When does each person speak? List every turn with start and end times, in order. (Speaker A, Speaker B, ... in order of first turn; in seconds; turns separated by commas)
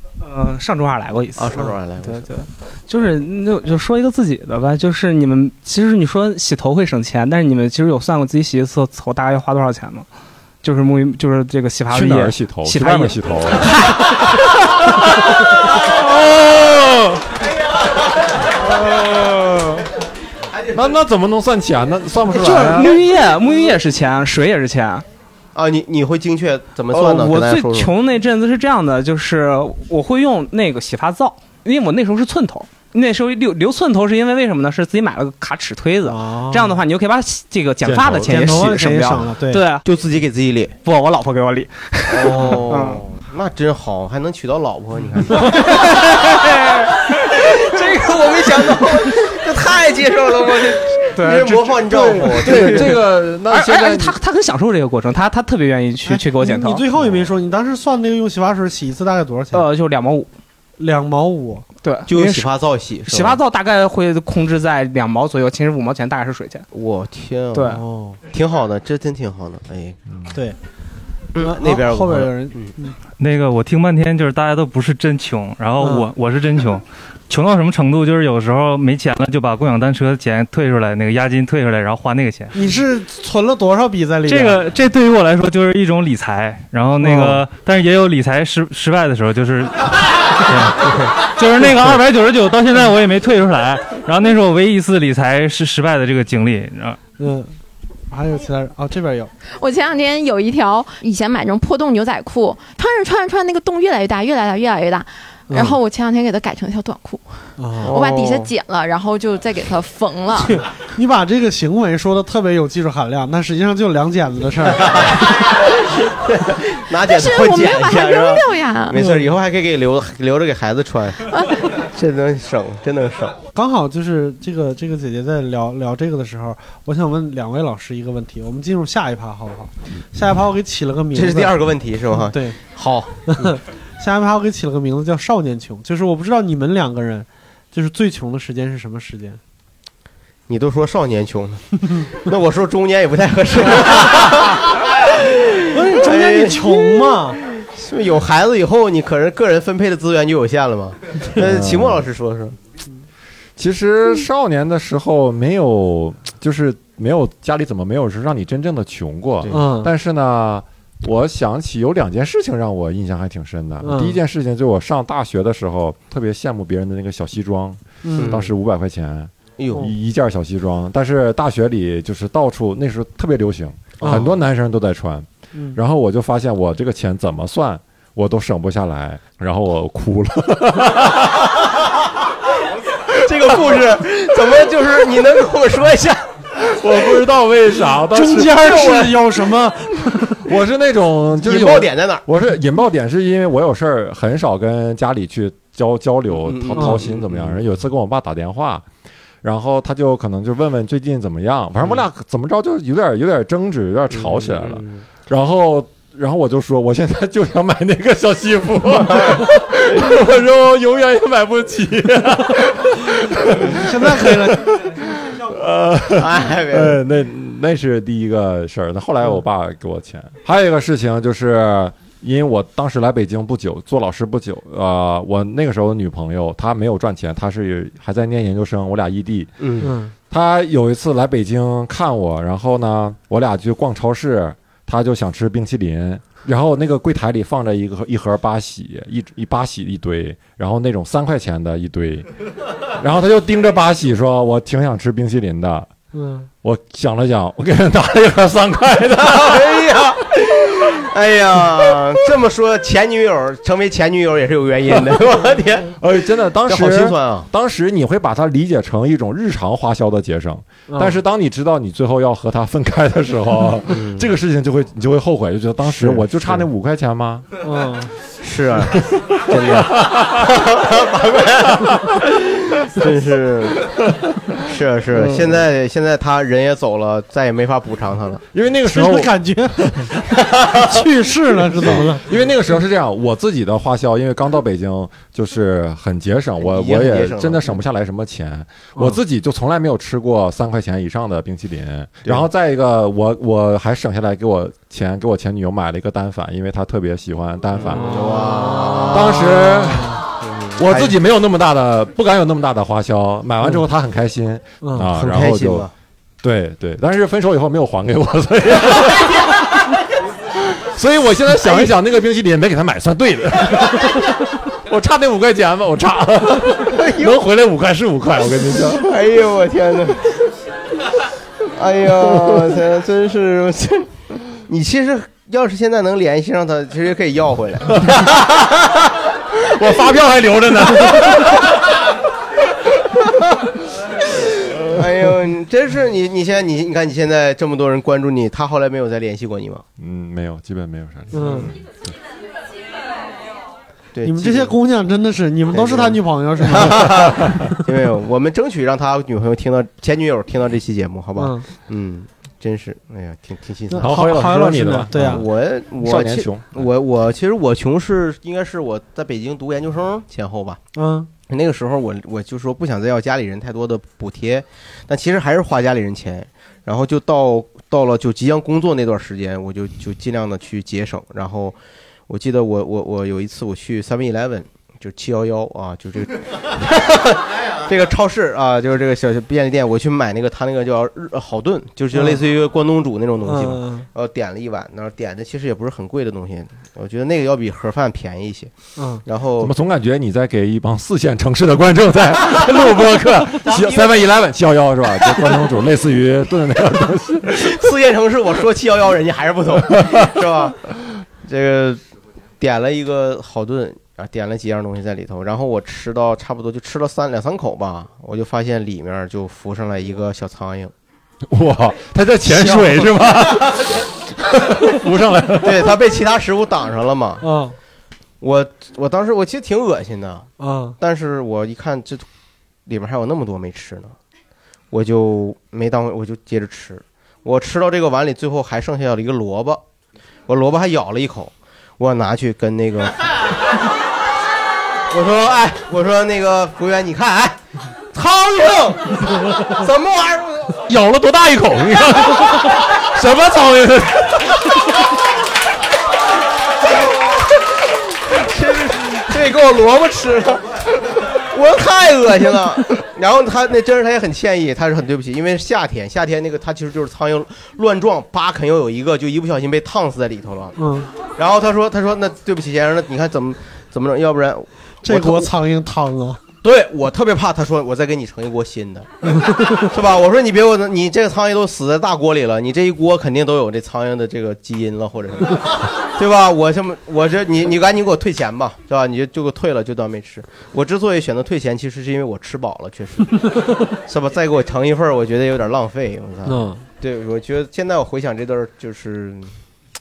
Speaker A: 0.2-10.1, Speaker B: 1.4-2.3, Speaker A: 10.6-14.3, Speaker C: 11.9-17.4, Speaker C: 18.6-19.8, Speaker C: 20.7-23.0, Speaker A: 22.3-25.1, Speaker B: 25.6-27.9, Speaker A: 26.9-39.8, Speaker D: 36.0-36.8, Speaker C: 37.8-38.4, Speaker D: 38.2-39.6, Speaker B: 39.8-40.8, Speaker A: 40.8-43.0, Speaker B: 42.1-53.0, Speaker D: 42.3-42.6, Speaker A: 45.6-46.9, Speaker A: 51.2-51.8, Speaker C: 51.9-54.2, Speaker A: 52.4-56.8, Speaker D: 56.1-59.7, Speaker A: 59.5-60.3, Speaker D: 60.8-61.7, Speaker A: 61.8-62.5, Speaker B: 62.1-63.4, Speaker A: 63.1-66.7, Speaker B: 66.7-70.0, Speaker A: 67.5-67.8, Speaker D: 67.7-68.2, Speaker B: 71.3-72.7, Speaker D: 71.4-73.0, Speaker E: 73.2-82.5, Speaker D: 75.8-76.1, Speaker D: 82.5-84.6, Speaker E: 84.3-97.0, Speaker D: 87.0-87.4, Speaker D: 97.2-97.5, Speaker D: 98.1-99.3, Speaker F: 99.6-110.6, Speaker D: 105.5-105.8, Speaker D: 107.6-107.9, Speaker B: 107.8-108.5, Speaker D: 110.5-115.4, Speaker B: 114.8-123.4, Speaker F: 117.0-119.0, Speaker D: 118.9-119.3, Speaker D: 123.5-131.5, Speaker B: 131.1-133.6, Speaker D: 132.3-132.6, Speaker D: 133.3-139.4, Speaker B: 140.5-152.6, Speaker D: 145.7-147.4, Speaker C: 151.4-152.0, Speaker C: 153.6-181.7, Speaker D: 159.5-159.9, Speaker D: 163.8-164.2, Speaker D: 168.0-168.4, Speaker B: 168.2-168.5, Speaker B: 169.6-169.9, Speaker B: 174.0-174.3, Speaker B: 183.1-186.7, Speaker C: 186.6-189.2, Speaker D: 188.1-190.4, Speaker C: 190.4-198.8, Speaker B: 191.4-192.2, Speaker B: 196.4-197.6, Speaker C: 199.4-229.6, Speaker B: 204.1-205.0, Speaker D: 213.7-214.6, Speaker B: 216.2-217.0, Speaker B: 229.6-229.9, Speaker D: 229.8-230.1, Speaker C: 230.3-242.3, Speaker C: 242.9-245.9, Speaker D: 246.1-246.5, Speaker C: 246.6-249.8, Speaker B: 249.2-256.1, Speaker C: 256.0-267.5, Speaker B: 256.6-257.5, Speaker D: 260.9-261.2, Speaker B: 263.9-264.3, Speaker B: 265.9-266.7, Speaker D: 267.6-268.1, Speaker B: 268.4-274.0, Speaker C: 269.5-270.5, Speaker B: 274.6-278.4, Speaker C: 278.5-280.1, Speaker D: 278.9-279.9, Speaker D: 280.8-282.3, Speaker C: 281.8-298.2, Speaker B: 286.6-287.8, Speaker B: 297.8-299.9, Speaker D: 298.0-299.1, Speaker C: 299.1-300.2, Speaker B: 300.4-301.2, Speaker C: 300.8-305.9, Speaker B: 305.1-305.9, Speaker C: 306.4-309.6, Speaker C: 310.8-319.1, Speaker B: 316.9-317.4, Speaker B: 319.0-320.4, Speaker B: 321.7-328.1, Speaker C: 322.3-322.8, Speaker C: 328.0-329.0, Speaker C: 329.5-331.7, Speaker B: 334.8-339.8, Speaker C: 340.0-342.1, Speaker D: 341.3-341.7, Speaker B: 344.1-344.8, Speaker D: 344.2-347.8, Speaker B: 345.7-354.1, Speaker D: 351.4-351.7, Speaker D: 353.9-355.4, Speaker C: 354.0-355.5, Speaker B: 355.1-360.8, Speaker C: 356.0-356.9, Speaker D: 360.9-361.3, Speaker B: 361.5-371.8, Speaker B: 372.3-389.7, Speaker D: 383.5-384.1, Speaker D: 389.0-389.2, Speaker C: 389.6-397.7, Speaker B: 393.6-394.3, Speaker B: 397.5-402.0, Speaker B: 402.6-410.9, Speaker C: 411.5-415.9, Speaker B: 412.5-413.6, Speaker B: 415.6-417.5, Speaker D: 417.4-417.8, Speaker B: 418.4-422.2, Speaker D: 420.6-421.0, Speaker B: 422.9-424.1, Speaker B: 424.9-429.8, Speaker B: 430.5-433.5, Speaker B: 435.1-437.6, Speaker B: 438.1-440.8, Speaker C: 440.9-444.9, Speaker B: 447.0-447.4, Speaker B: 448.3-465.5, Speaker D: 460.8-461.1, Speaker D: 465.0-466.4, Speaker B: 466.6-489.5, Speaker D: 469.3-469.9, Speaker D: 486.5-486.8